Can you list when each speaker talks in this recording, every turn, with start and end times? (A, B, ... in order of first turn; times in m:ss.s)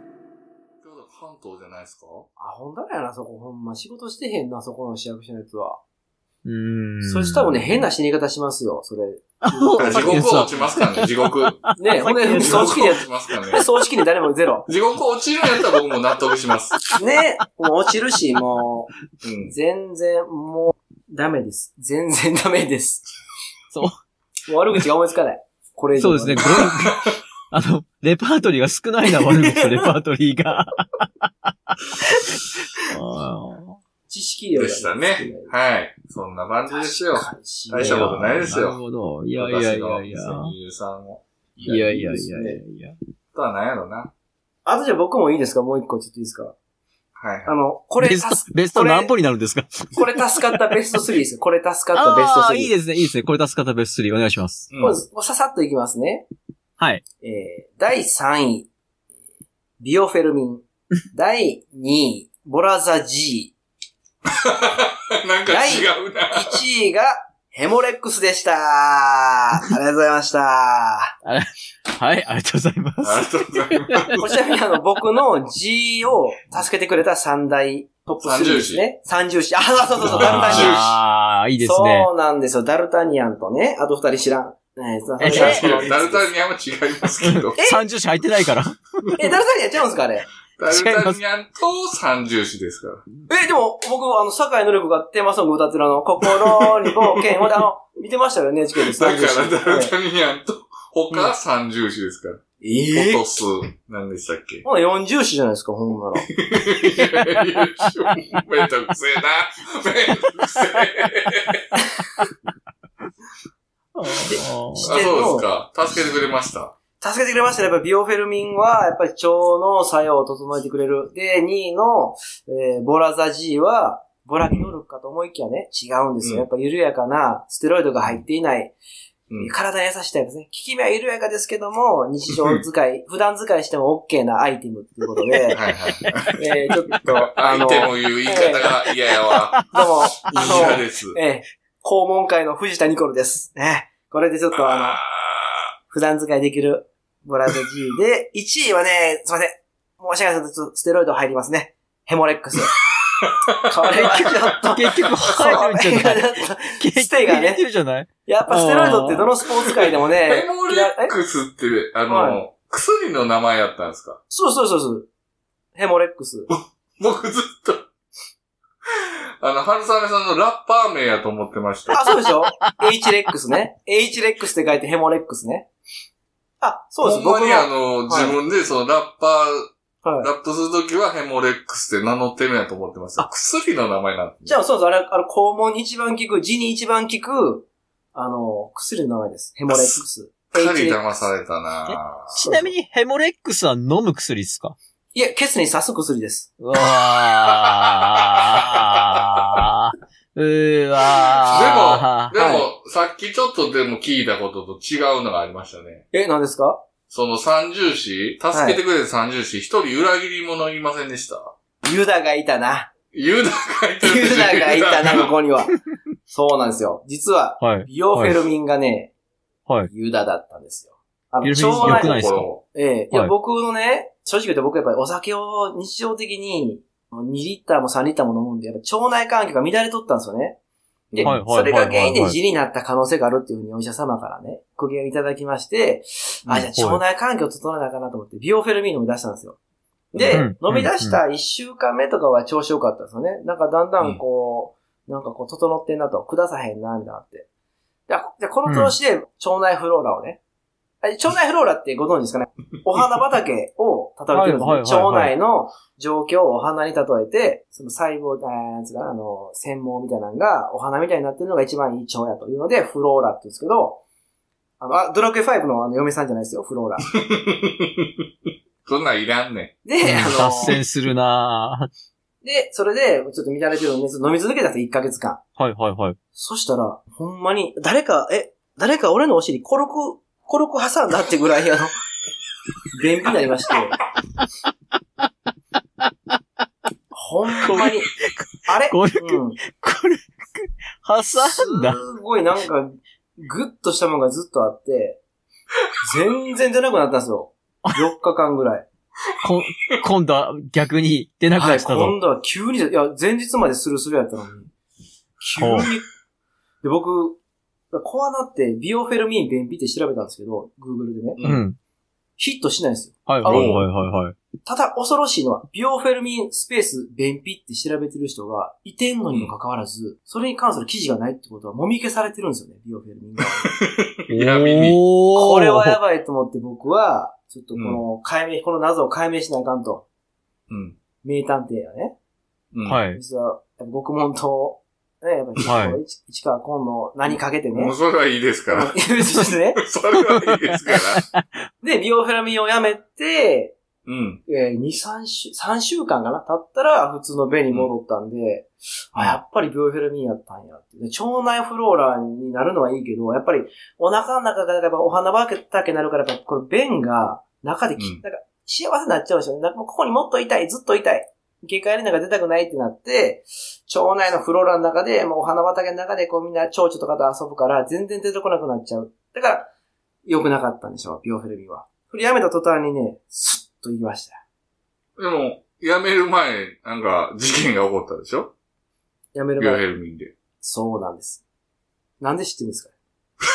0:00.8-0:02.3 A
0:02.4-0:05.8 B
0:06.4-0:07.8 C
0:07.0-0:10.7 B
0:09.4-0:13.0 C
0:09.8-0:13.6 A
0:11.8-0:14.7 B
0:14.7-0:16.7 A
0:17.0-0:18.9 B
0:19.2-0:19.5 A
0:19.5-0:23.0 B
0:24.5-0:26.5 B
0:26.0-0:31.0 C
0:26.5-0:26.9 A
0:32.0-0:33.8 C
0:34.1-0:35.5 B
0:34.5-0:38.8 A
0:36.7-0:38.2 B
0:37.8-0:40.5 C
0:39.4-0:42.2 A
0:41.6-0:43.0 C
0:42.0-0:42.6 B
0:43.3-0:44.1 A
0:44.6-0:46.5 B
0:47.2-0:47.5 A
0:47.4-0:49.1 B
0:48.0-0:50.6 C
0:50.0-0:52.7 B
0:51.9-0:54.7 C
0:54.7-0:55.0 A
0:54.8-0:56.3 B
0:56.8-0:57.0 C
0:57.2-0:58.7 B
0:59.8-1:03.5 B
1:04.4-1:06.6 A
1:05.5-1:11.1 B
1:11.2-1:14.2 C
1:13.0-1:14.2 A
1:14.2-1:20.8 B
1:18.2-1:18.9 A
1:20.0-1:21.0 A
1:20.0-1:22.1 C
1:21.6-1:26.3 B
1:25.2-1:25.6 C
1:25.2-1:27.6 A
1:27.2-1:28.8 C
1:27.6-1:27.8 B
1:29.2-1:30.2 B
1:30.6-1:33.0 A
1:30.7-1:31.2 C
1:33.3-1:39.9 B
1:36.2-1:36.6 A
1:38.7-1:42.4 A
1:42.6-1:43.3 B
1:42.9-1:44.6 A
1:44.6-1:46.3 B
1:46.4-1:51.6 A
1:53.9-1:54.9 C
1:54.3-1:55.5 B
1:54.8-1:56.8 A
1:57.0-2:08.7 B
2:04.4-2:04.7 A
2:09.4-2:15.6 B
2:15.5-2:16.3 A
2:16.0-2:16.3 C
2:16.4-2:18.7 B
2:17.0-2:19.6 A
2:19.3-2:19.7 C
2:19.7-2:25.0 B
2:20.2-2:21.2 A
2:20.3-2:20.7 C
2:24.7-2:25.6 A
2:25.9-2:32.7 B
2:33.2-2:34.3 A
2:33.6-2:37.6 B
2:33.9-2:39.3 C
2:38.2-2:41.1 B
2:39.7-2:44.2 A
2:42.1-2:42.4 B
2:44.3-2:45.1 B
2:45.7-2:46.5 B
2:46.5-2:47.9 A
2:49.4-2:52.0 A
2:51.9-2:55.7 B
2:56.6-2:58.4 B
2:57.0-3:04.6 A
3:00.0-3:00.3 B
3:04.4-3:11.2 B
3:09.7-3:10.0 A
3:10.5-3:12.4 A
3:11.9-3:14.8 C
3:12.4-3:12.7 B
3:15.1-3:16.5 B
3:16.6-3:22.3 C
3:21.4-3:26.0 A
3:22.3-3:22.7 B
3:26.1-3:26.8 B
3:27.1-3:31.5 A
3:28.5-3:28.8 B
3:31.8-3:32.9 B
3:33.1-3:35.3 A
3:34.0-3:35.7 B
3:36.3-3:39.1 B
3:37.6-3:38.4 C
3:39.9-3:42.2 B
3:41.4-3:42.5 C
3:41.8-3:42.6 A
3:42.7-3:50.6 B
3:51.1-3:51.4 A
3:51.1-3:59.6 B
3:51.2-3:52.4 C
3:56.5-3:57.0 C
4:00.1-4:07.5 B
4:00.1-4:00.4 A
4:00.3-4:01.2 C
4:08.1-4:10.4 B
4:08.6-4:08.9 C
4:11.0-4:24.0 B
4:14.3-4:15.3 C
4:24.8-4:27.1 B
4:27.2-4:28.0 A
4:28.8-4:29.8 A
4:29.8-4:30.8 B
4:30.0-4:31.9 C
4:32.4-4:35.4 B
4:35.6-4:36.2 C
4:36.3-4:41.9 B
4:42.9-4:44.0 B
4:47.1-4:48.1 B
4:47.6-4:48.0 C
4:48.6-4:49.6 B
4:48.8-4:52.0 C
4:51.4-4:55.2 B
4:56.0-4:58.9 B
4:59.4-5:02.1 C
5:01.6-5:04.7 B
5:05.4-5:06.1 B
5:05.6-5:05.9 C
5:06.8-5:07.4 B
5:07.9-5:11.4 B
5:11.4-5:11.6 A
5:11.4-5:11.8 C
5:12.4-5:13.8 B
5:13.3-5:14.4 C
5:13.4-5:13.8 A
5:14.6-5:23.7 B
5:23.7-5:25.0 A
5:24.3-5:26.0 C
5:25.3-5:30.0 B
5:27.7-5:28.0 A
5:30.7-5:31.0 A
5:31.2-5:32.2 B
5:32.7-5:33.0 A
5:32.8-5:33.2 C
5:33.1-5:37.9 B
5:35.6-5:36.0 C
5:37.7-5:41.2 A
5:38.7-5:39.8 B
5:40.2-5:41.4 C
5:41.8-5:43.8 B
5:44.0-5:44.4 A
5:44.5-6:09.7 B
5:58.0-5:58.2 A
6:10.2-6:14.4 B
6:15.2-6:18.5 A
6:19.3-6:19.8 B
6:19.6-6:20.3 A
6:20.6-6:21.4 B
6:22.2-6:22.9 B